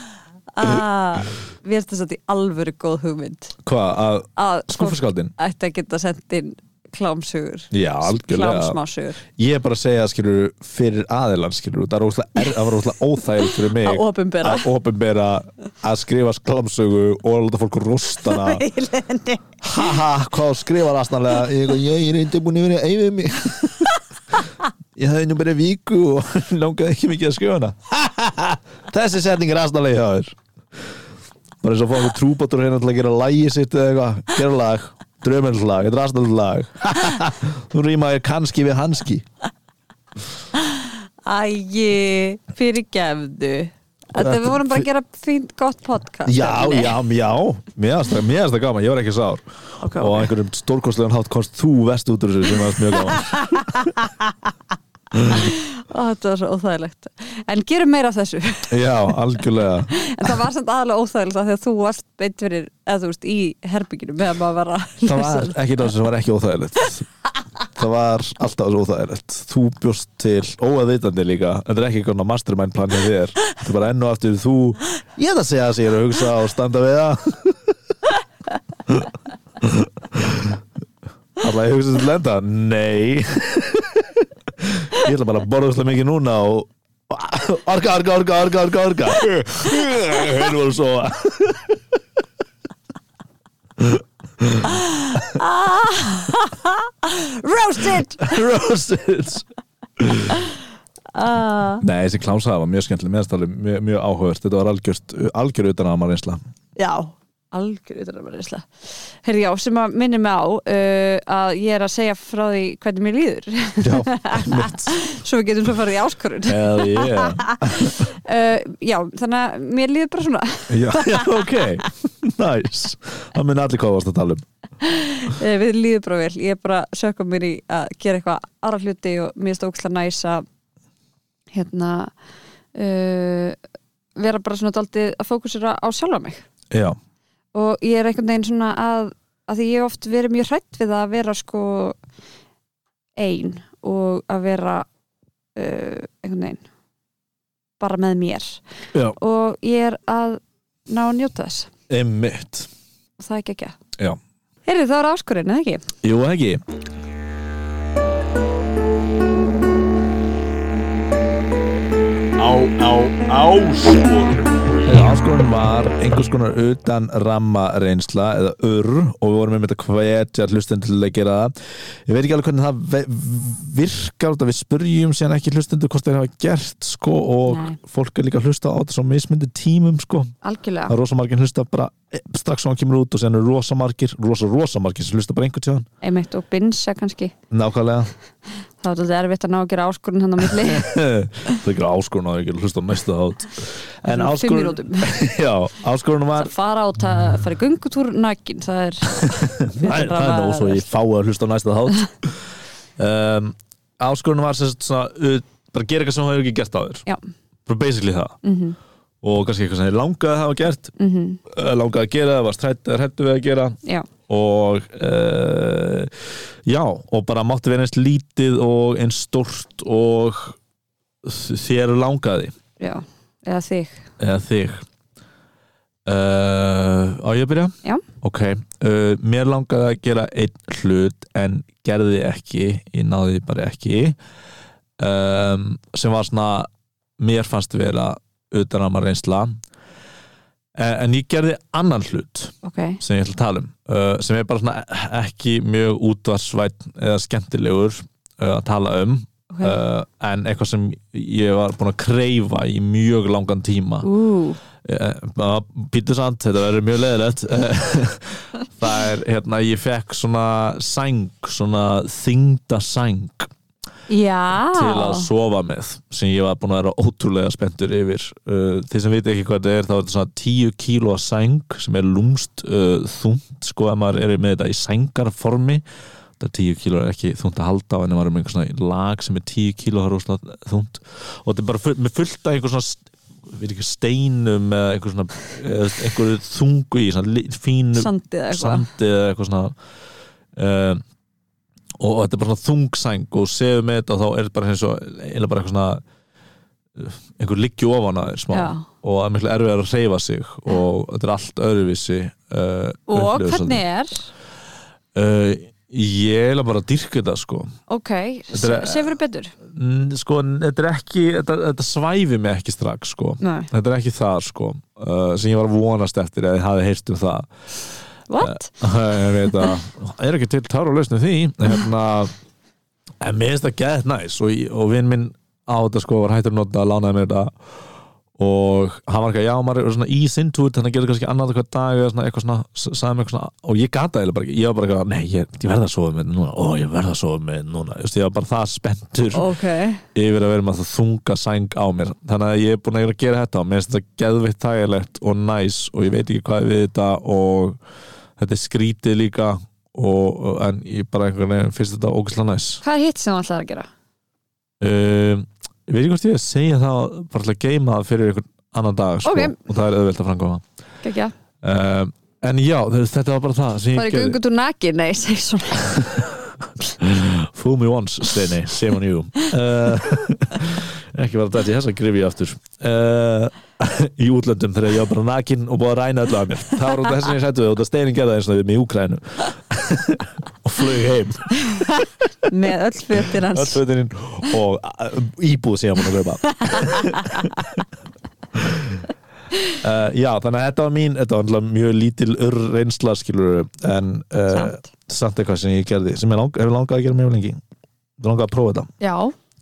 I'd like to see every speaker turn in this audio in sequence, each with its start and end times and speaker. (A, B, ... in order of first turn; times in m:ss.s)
0:00.5-0:03.6 A
0:03.6-0:05.3 B
0:04.4-0:09.2 A
0:07.7-0:08.8 B
0:09.4-0:18.6 B
0:13.7-0:14.7 A
0:18.2-0:20.0 A
0:19.6-0:23.9 B
0:25.0-0:30.4 B
0:31.6-0:39.2 B
0:40.6-0:47.0 A
0:44.2-0:44.9 B
0:46.2-0:53.9 B
0:49.8-0:50.3 A
0:52.9-0:54.3 A
0:55.1-0:55.5 B
0:55.2-0:59.1 A
0:58.7-1:00.4 B
0:59.9-1:05.6 A
1:05.0-1:07.1 B
1:07.7-1:17.7 B
1:18.8-1:20.6 B
1:21.4-1:31.8 B
1:33.8-1:35.4 B
1:34.7-1:38.4 A
1:38.2-1:39.5 B
1:40.0-1:40.4 B
1:41.1-1:41.8 A
1:41.8-1:46.4 B
1:46.8-2:01.6 A
1:53.8-1:55.0 B
1:56.4-1:58.1 B
2:00.7-2:04.4 B
2:04.8-2:10.4 A
2:11.5-2:12.1 A
2:12.7-2:13.6 A
2:14.2-2:16.4 A
2:16.7-2:17.0 B
2:17.5-2:22.0 A
2:23.2-2:24.9 A
2:25.6-2:26.6 A
2:27.8-2:28.6 A
2:29.2-2:31.7 A
2:31.9-2:32.7 B
2:33.2-2:33.8 A
2:34.6-2:35.9 A
2:36.0-2:36.6 B
2:42.4-2:51.5 B
2:52.0-3:00.3 B
2:57.5-2:57.8 A
3:00.4-3:00.9 A
3:00.9-3:05.8 B
3:06.0-3:07.3 A
3:07.5-3:08.1 B
3:08.8-3:10.9 A
3:10.4-3:16.5 B
3:14.0-3:15.1 A
3:16.4-3:20.9 A
3:19.1-3:22.4 B
3:23.0-3:27.0 B
3:27.6-3:28.4 B
3:28.4-3:28.8 A
3:29.2-3:30.9 B
3:31.0-3:31.4 A
3:31.5-3:40.6 B
3:41.2-3:42.5 B
3:42.8-3:44.1 A
3:44.2-3:44.8 B
3:46.0-3:54.2 B
3:55.0-3:56.7 B
3:57.2-3:59.6 B
4:00.8-4:14.1 B
4:02.6-4:03.0 A
4:09.5-4:09.8 A
4:14.0-4:14.6 A
4:14.8-4:23.5 B
4:24.1-4:25.3 A
4:24.7-4:35.8 B
4:36.4-4:49.7 B
4:47.9-4:48.9 A
4:50.5-4:51.0 B
4:52.0-4:56.0 B
4:57.0-5:03.8 B
4:58.5-4:58.9 A
5:03.1-5:04.3 A
5:05.1-5:07.7 B
5:07.9-5:09.5 A
5:08.5-5:09.1 B
5:09.6-5:17.5 B
5:13.4-5:13.7 A
5:18.3-5:18.7 A
5:18.4-5:22.3 B
5:23.2-5:27.5 B
5:28.4-5:39.5 B
5:39.3-5:40.0 A
5:40.1-5:47.8 B
5:48.4-5:52.8 B
5:52.8-5:53.9 A
5:54.8-6:00.6 B
5:59.2-5:59.6 A
6:01.0-6:01.3 A
6:01.6-6:04.4 B
6:03.9-6:06.2 A
6:06.0-6:06.3 B
6:07.0-6:21.6 B
6:22.4-6:23.8 A
6:23.4-6:27.8 B
6:26.6-6:27.5 A
6:28.5-6:29.0 B
6:29.7-6:37.6 B
6:34.5-6:34.8 A
6:38.2-6:38.9 B
6:39.0-6:39.3 A